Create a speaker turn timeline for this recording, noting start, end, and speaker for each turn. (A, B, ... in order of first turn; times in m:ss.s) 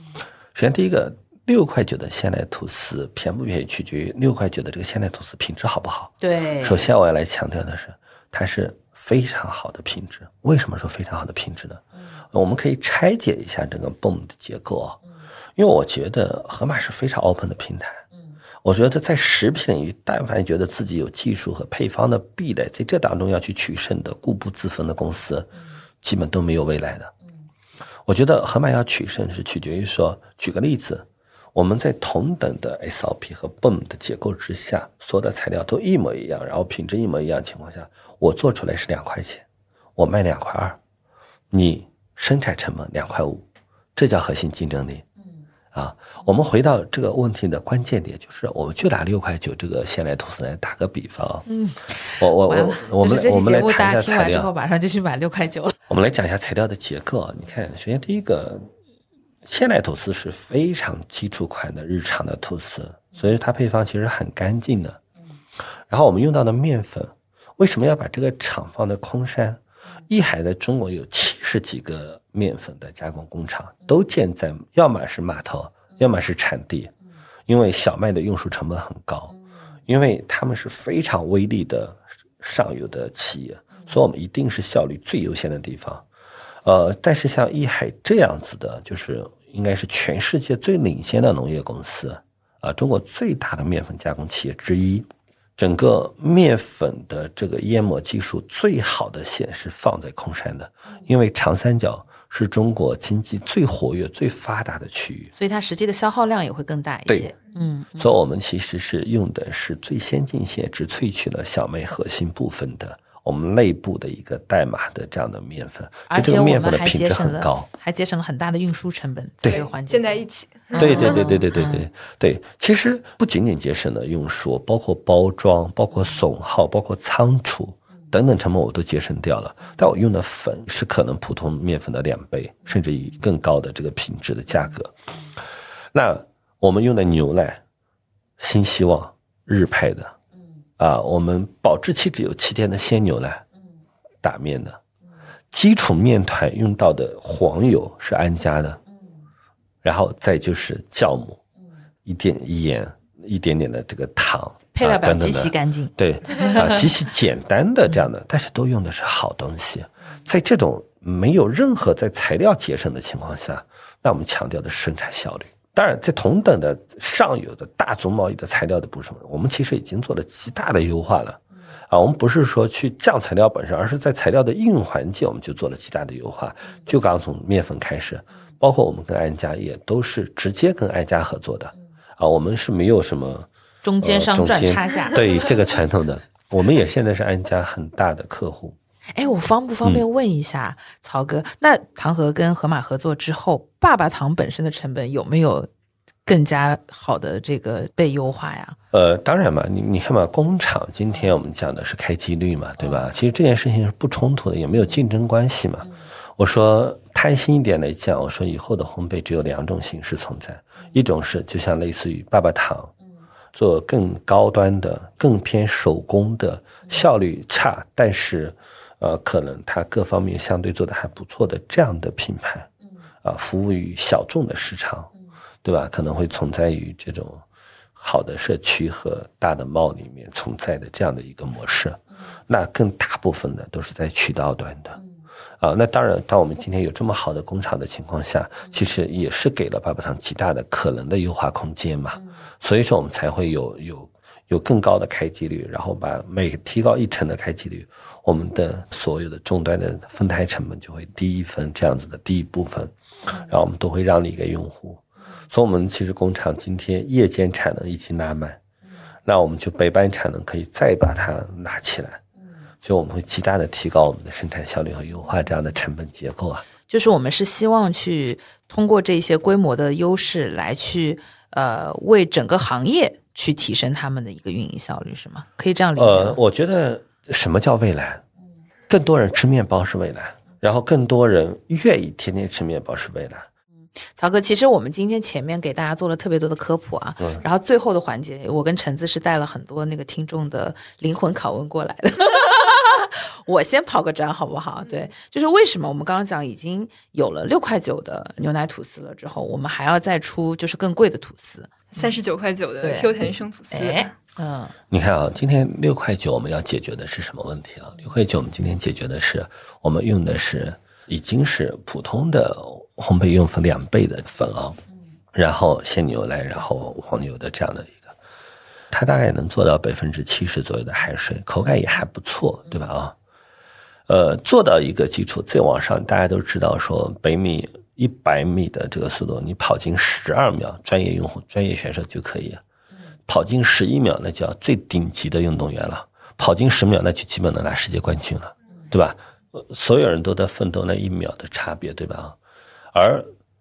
0:00.6-0:15.0 A
0:06.2-0:06.9 B
0:15.6-0:18.0 A
0:18.6-0:25.5 A
0:26.0-0:27.1 A
0:28.1-0:39.4 A
0:40.0-0:40.8 A
0:41.5-0:43.4 A
0:44.0-0:45.0 A
0:45.7-0:51.4 A
0:51.5-0:55.8 B
0:52.1-0:54.5 A
0:55.9-0:58.7 A
0:59.4-1:05.0 A
1:05.9-1:16.9 A
1:17.5-1:19.4 A
1:19.9-1:26.0 A
1:26.6-1:45.3 A
1:45.4-1:48.1 B
1:47.1-1:47.3 A
1:48.0-1:57.7 A
1:56.1-2:01.8 B
1:59.4-2:01.3 C
2:00.8-2:14.9 A
2:15.9-2:17.6 A
2:18.4-2:20.1 A
2:20.8-2:23.4 A
2:24.2-2:24.8 A
2:25.5-2:28.8 A
2:29.8-2:31.4 A
2:32.0-3:03.5 A
2:34.7-2:36.8 B
3:03.8-3:05.2 B
3:04.0-3:08.8 A
3:09.1-3:15.7 B
3:16.3-3:18.8 B
3:18.9-3:32.9 A
3:33.5-3:42.7 A
3:43.2-3:45.1 A
3:45.6-3:47.4 A
3:48.0-3:55.0 A
3:55.6-4:18.6 A
4:19.3-4:22.2 A
4:22.8-4:26.7 A
4:26.9-4:36.4 B
4:36.0-4:38.2 A
4:38.9-4:43.5 A
4:44.1-5:02.1 B
5:02.0-5:04.1 C
5:02.8-5:04.7 B
5:04.9-5:14.8 A
5:15.3-5:18.2 A
5:18.9-5:23.1 A
5:24.1-5:32.6 A
5:33.3-5:42.4 A
5:42.9-5:43.3 A